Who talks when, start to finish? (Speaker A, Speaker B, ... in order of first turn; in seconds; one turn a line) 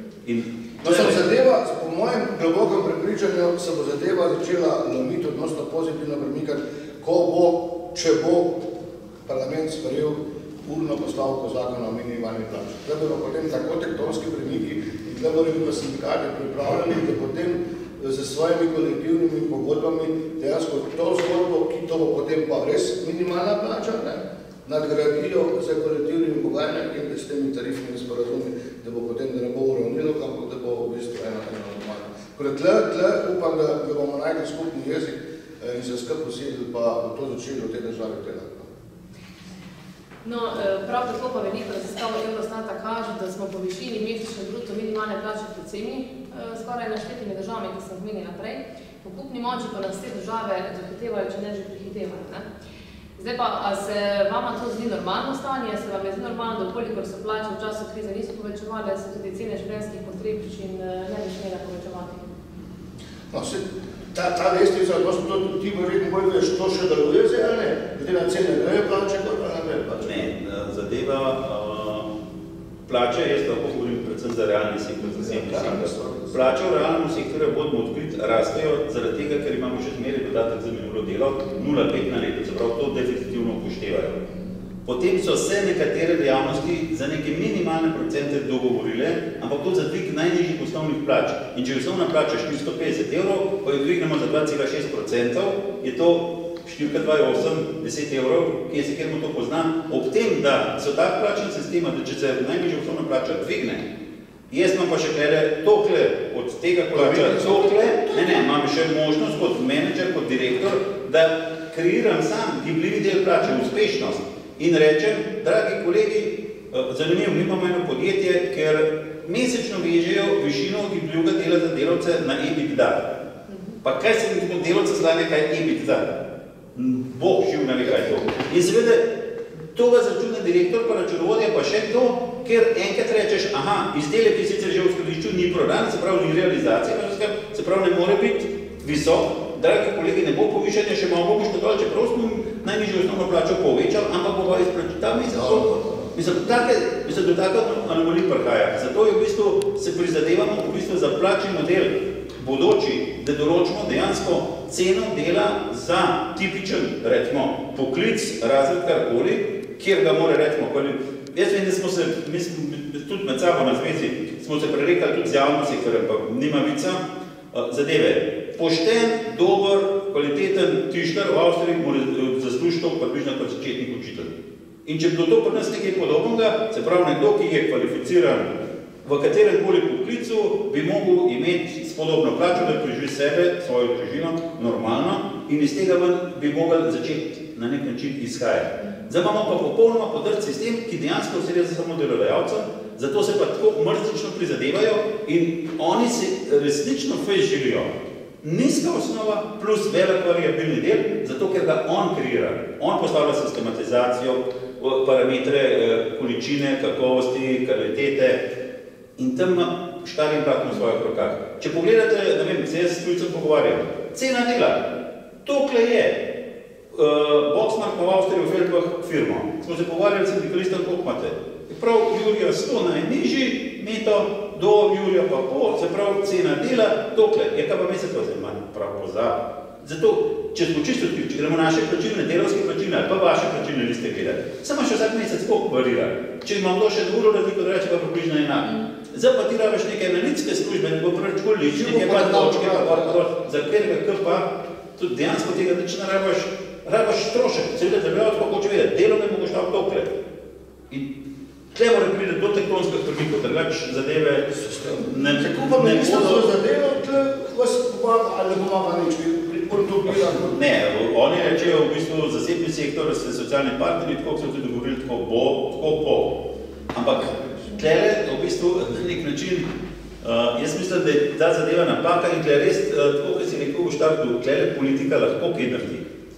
Speaker A: 0.2-1.2
Speaker B: 0.8-8.6
Speaker B: 9.3-38.7
Speaker C: 40.2-52.5
Speaker C: 53.2-62.3
Speaker B: 63.3-70.3
Speaker A: 70.0-72.1
Speaker A: 72.9-84.2
Speaker B: 75.1-76.5
Speaker A: 84.8-103.8
Speaker A: 104.5-123.1
Speaker B: 106.9-108.4
Speaker A: 123.8-126.1
Speaker A: 126.7-129.1
Speaker A: 129.7-167.0
Speaker B: 145.3-146.1
Speaker A: 167.5-174.3
Speaker A: 174.8-178.5
Speaker A: 179.0-208.4
Speaker A: 209.2-214.9
Speaker A: 215.4-216.2
Speaker A: 216.9-250.1
Speaker B: 241.7-243.2
Speaker A: 251.7-256.5
Speaker B: 254.6-260.6
Speaker A: 260.1-266.4
Speaker A: 266.9-269.7
Speaker A: 270.2-276.1